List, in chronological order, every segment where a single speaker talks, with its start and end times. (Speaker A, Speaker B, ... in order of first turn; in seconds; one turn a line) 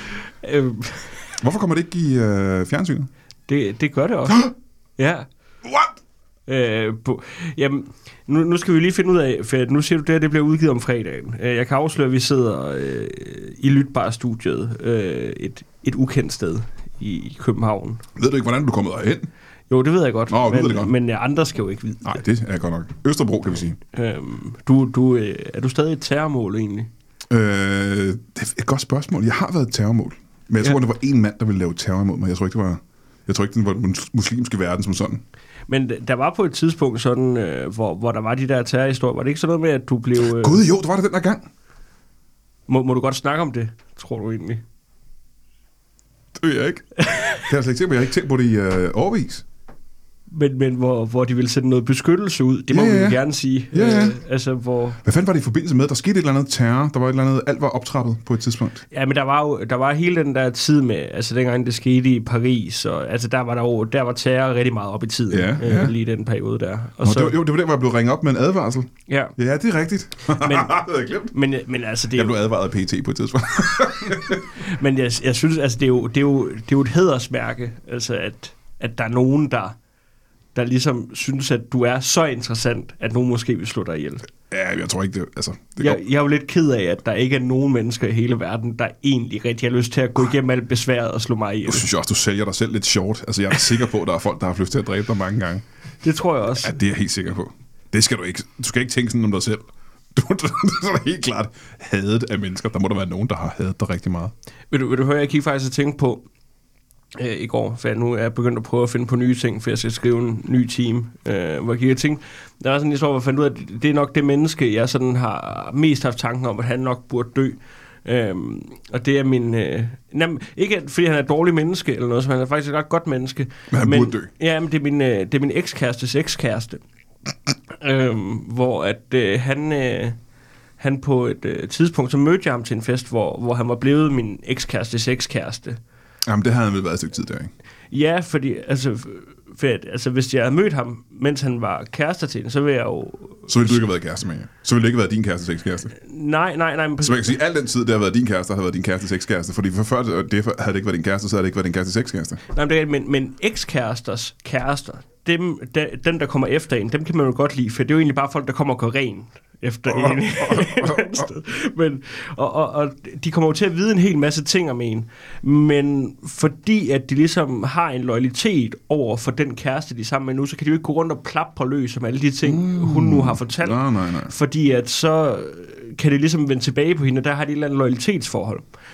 Speaker A: 0.4-1.4
Speaker B: 1.4-3.1
Speaker A: 3.5-4.4
Speaker A: 5.0-5.3
Speaker B: 5.7-5.9
Speaker A: 6.5-18.0
Speaker B: 18.2-19.3
Speaker A: 19.7-22.2
Speaker B: 20.3-20.9
Speaker B: 22.1-23.8
Speaker A: 23.9-26.9
Speaker B: 27.3-35.2
Speaker A: 35.7-40.6
Speaker B: 40.2-41.5
Speaker A: 42.7-44.6
Speaker B: 46.4-49.4
Speaker A: 47.0-47.4
Speaker A: 50.3-55.0
Speaker B: 52.7-53.2
Speaker B: 53.7-54.2
Speaker B: 55.0-58.8
Speaker A: 58.9-67.4
Speaker B: 65.3-65.9
Speaker B: 67.0-71.3
Speaker A: 69.1-69.3
Speaker A: 70.3-72.4
Speaker B: 72.2-74.4
Speaker A: 74.6-79.8
Speaker A: 80.5-84.2
Speaker B: 84.5-86.0
Speaker A: 85.8-91.9
Speaker B: 91.7-95.6
Speaker A: 96.0-96.8
Speaker B: 96.6-104.3
Speaker A: 104.7-106.2
Speaker A: 107.2-126.8
Speaker B: 123.7-124.3
Speaker A: 127.8-130.2
Speaker A: 130.8-135.8
Speaker B: 136.3-137.5
Speaker A: 137.9-143.8
Speaker B: 143.5-145.9
Speaker A: 146.0-147.3
Speaker B: 147.0-152.4
Speaker A: 152.5-178.7
Speaker B: 159.9-161.3
Speaker B: 172.4-174.3